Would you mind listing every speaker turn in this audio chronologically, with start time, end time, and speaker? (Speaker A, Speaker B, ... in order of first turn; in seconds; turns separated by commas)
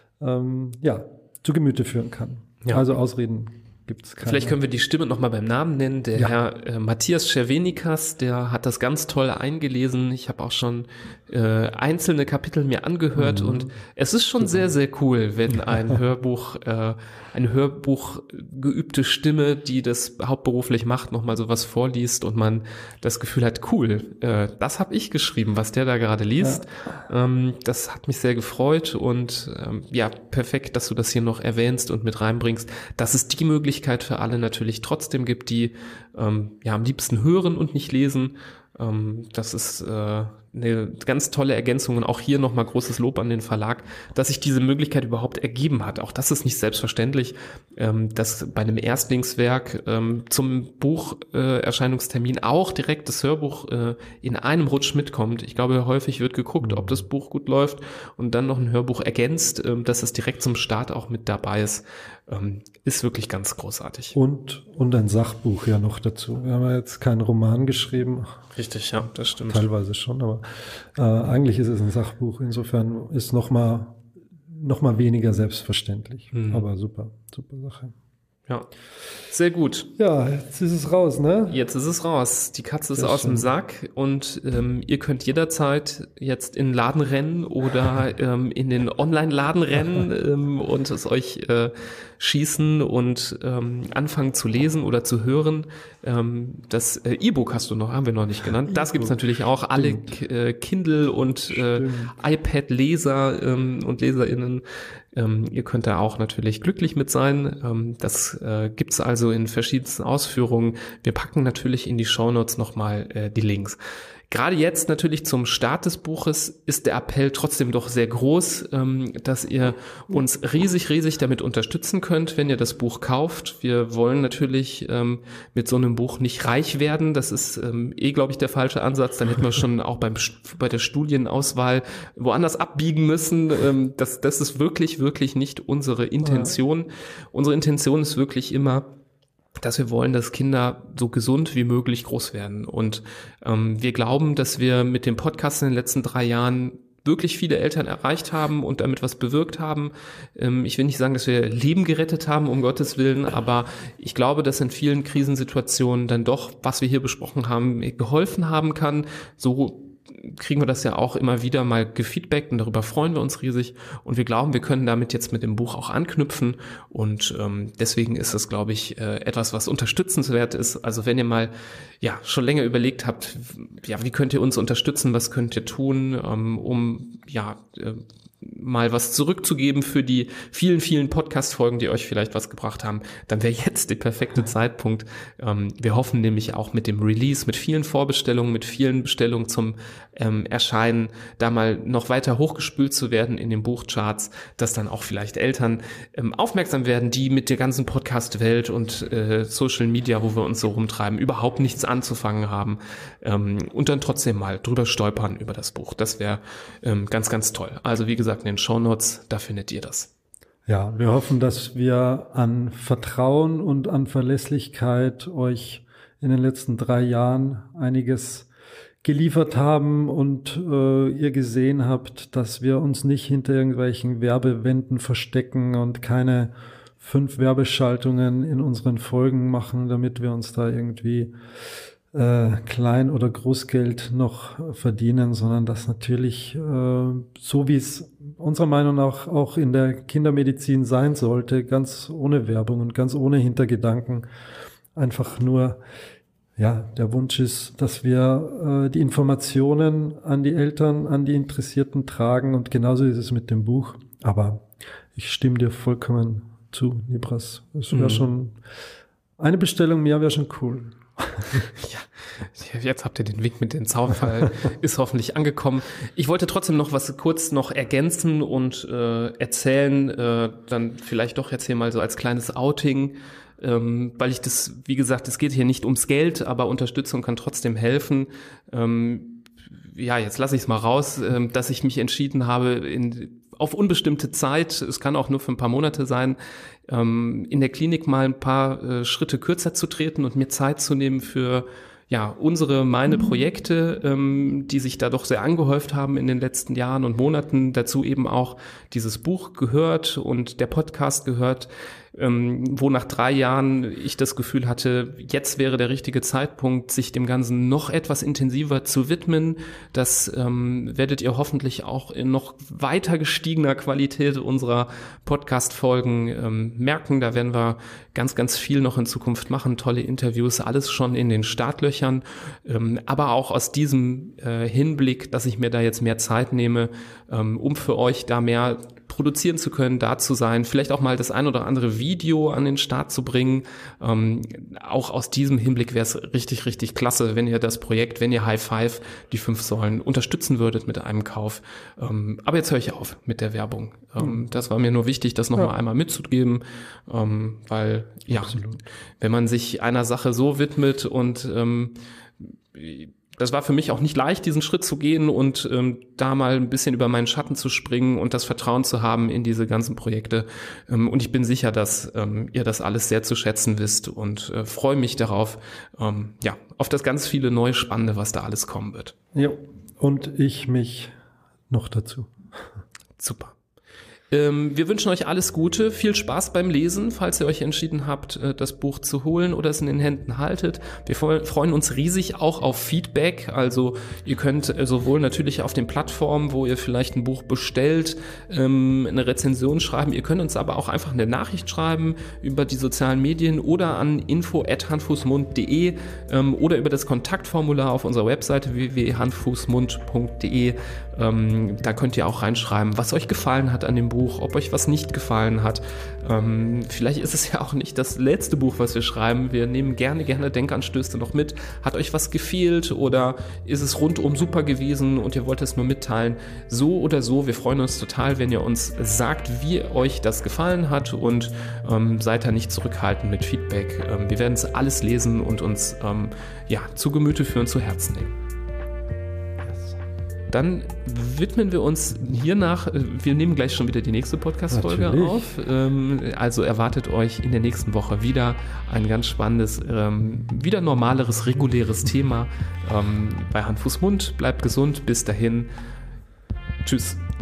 Speaker A: 0.2-4.6, Speaker B: 4.2-64.2, Speaker A: 13.2-13.7, Speaker A: 14.4-14.7, Speaker A: 56.6-57.0, Speaker A: 64.1-68.3, Speaker B: 68.5-69.7, Speaker A: 69.5-77.9, Speaker B: 76.3-76.7, Speaker B: 79.3-79.9, Speaker A: 80.0-81.6, Speaker B: 81.5-113.8, Speaker A: 83.0-83.5, Speaker A: 98.7-99.2, Speaker A: 99.8-100.1, Speaker A: 101.5-102.1, Speaker B: 114.3-138.9, Speaker B: 139.6-210.1, Speaker A: 210.7-218.5, Speaker A: 219.0-231.3, Speaker A: 232.1-244.3, Speaker A: 244.9-245.8, Speaker A: 246.6-258.6, Speaker B: 257.9-258.2, Speaker A: 259.4-261.7, Speaker B: 261.6-286.4, Speaker B: 286.9-348.7, Speaker A: 348.3-348.8, Speaker B: 349.2-369.1, Speaker A: 369.4-371.1, Speaker A: 371.7-372.4, Speaker B: 373.2-373.6, Speaker B: 374.3-428.4, Speaker A: 429.7-430.0, Speaker B: 430.5-445.7, Speaker A: 434.7-435.6, Speaker B: 446.8-447.2